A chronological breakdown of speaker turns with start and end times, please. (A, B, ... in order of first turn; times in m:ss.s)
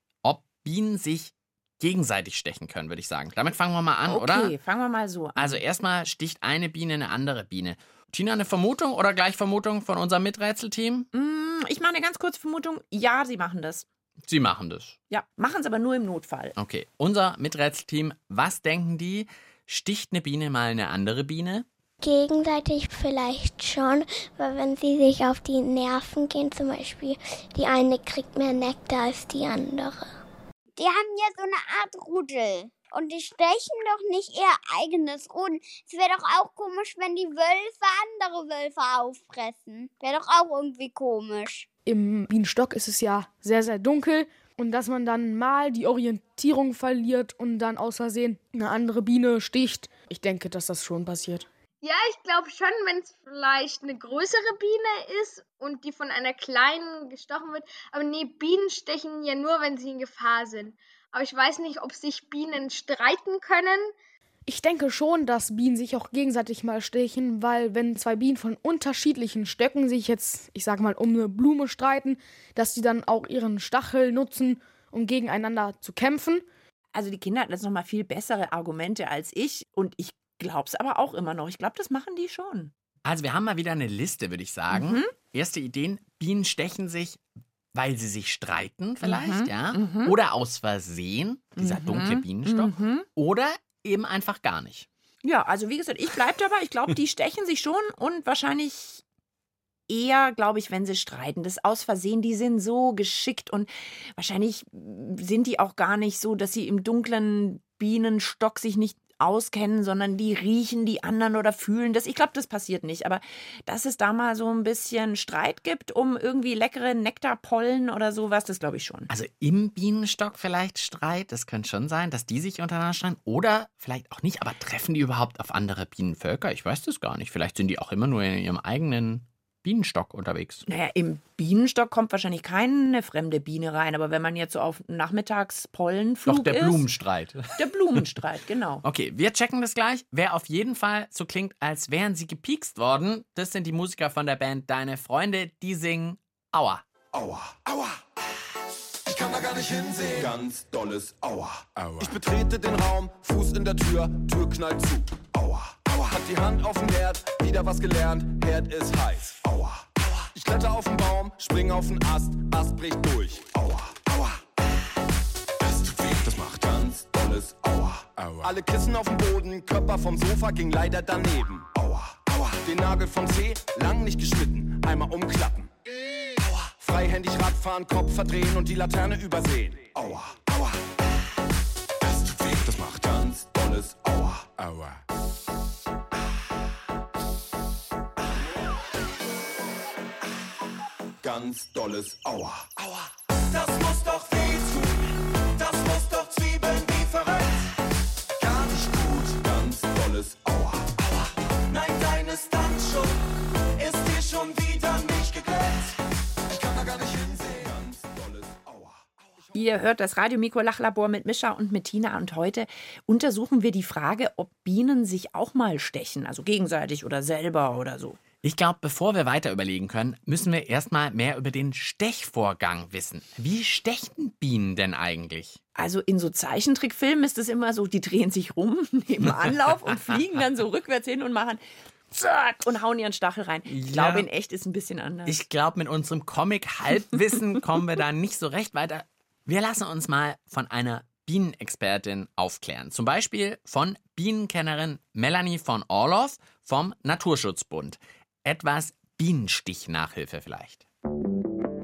0:00.2-0:04.6 A
0:04.1-0:05.6 B
0:05.4-0:11.1 A
0:11.1-0:13.9 B
0:14.2-0:15.0 A
0:15.1-0:16.6 B
0:16.6-0:21.7 A
0:22.0-0:30.1 C
0:30.8-0:41.7 D
0:41.9-0:51.5 E
0:51.8-1:03.9 F
1:04.5-1:16.4 E
1:16.9-1:22.7 B
1:23.0-1:27.2 A
1:24.7-1:25.1 B
1:27.7-1:34.9 A
1:29.0-1:30.2 B
1:31.6-1:33.1 B
1:35.2-1:39.0 B
1:39.9-1:59.1 B
1:59.1-2:10.6 A
2:10.7-2:16.9 B
2:16.2-2:18.1 A
2:17.6-2:18.8 B
2:18.8-2:26.9 A
2:27.1-2:28.0 G
2:29.1-2:44.4 G
2:45.6-2:55.7 G
2:56.4-3:00.8 G
3:02.0-3:05.0 G
3:11.2-3:17.7 G
3:18.4-3:23.2 G
3:23.8-3:26.0 G
3:26.5-3:29.0 G
3:29.5-3:38.2 B
3:38.4-3:45.6 A
3:45.8-3:55.4 B
3:53.7-3:54.3 A
3:55.3-4:10.8 A